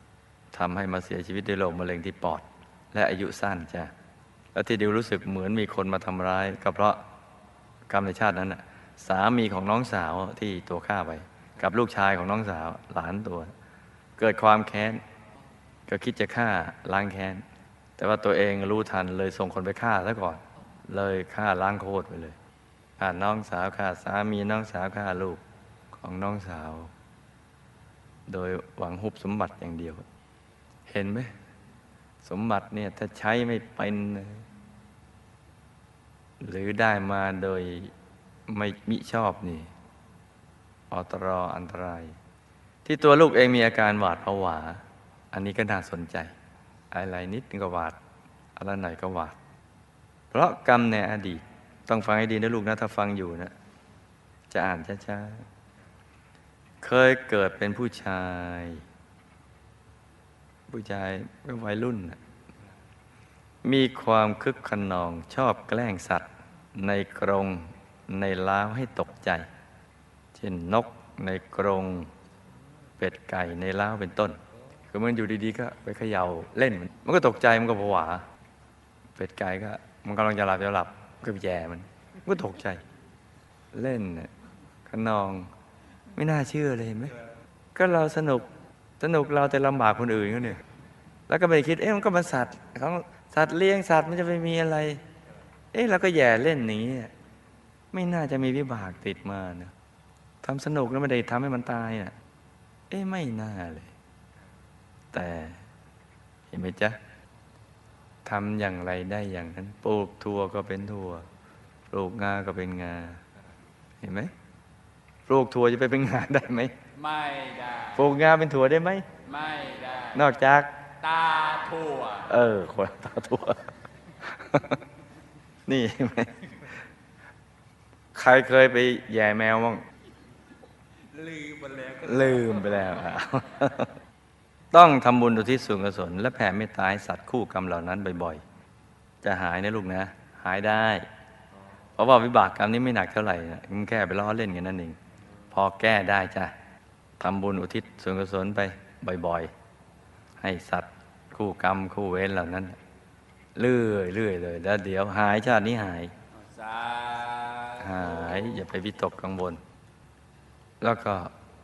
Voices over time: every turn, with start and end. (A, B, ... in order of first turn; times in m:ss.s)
0:00.5-0:03.9 A
0:04.5-0:07.0 A
0:07.9-0:13.5 A
0:14.2-0:15.0 A
0:15.9-0:17.4 A
0:18.0-0:22.4 A
0:23.0-0:25.4 A
0:26.0-0:26.9 A
0:28.3-0:30.0 A
0:30.9-0:31.3 A
0:32.2-0:34.4 A
0:36.4-0:37.9 A
0:38.5-0:39.7 A
0:40.9-0:42.2 A
0:42.8-0:46.3 A
0:46.9-0:48.0 A
0:48.6-0:49.4 A
0:50.3-0:53.5 A
0:54.5-0:55.4 A
0:56.8-0:58.8 A
1:00.7-1:02.2 A
1:03.6-1:09.5 A
1:10.3-1:12.1 A
1:13.0-1:18.2 A
1:19.2-1:22.8 A
1:23.7-1:24.3 A
1:24.9-1:25.5 A
1:26.1-1:27.2 A
1:27.7-1:28.5 A
1:29.0-1:30.6 A
1:31.3-1:35.0 A
1:35.7-1:37.1 A
1:37.9-1:39.7 A
1:40.4-1:42.1 A
1:42.9-1:43.9 A
1:45.1-1:45.6 A
1:46.5-1:47.0 A
1:48.2-1:51.3 A
1:51.9-1:53.2 A
1:54.0-1:54.3 A
1:55.3-1:56.7 A
1:57.0-1:58.0 B
1:57.9-1:59.1 A
1:59.2-2:00.3 B
2:00.1-2:00.8 A
2:01.0-2:02.3 B
2:02.2-2:03.7 A
2:04.2-2:04.8 A
2:05.6-2:06.8 A
2:08.1-2:09.8 A
2:11.1-2:12.8 B
2:12.0-2:14.0 A
2:14.7-2:18.4 A
2:19.2-2:21.0 A
2:22.0-2:25.0 A
2:25.5-2:26.5 A
2:27.2-2:29.5 A
2:30.4-2:32.8 A
2:33.6-2:36.1 A
2:36.3-2:38.4 B
2:37.8-2:39.6 A
2:40.8-2:41.3 A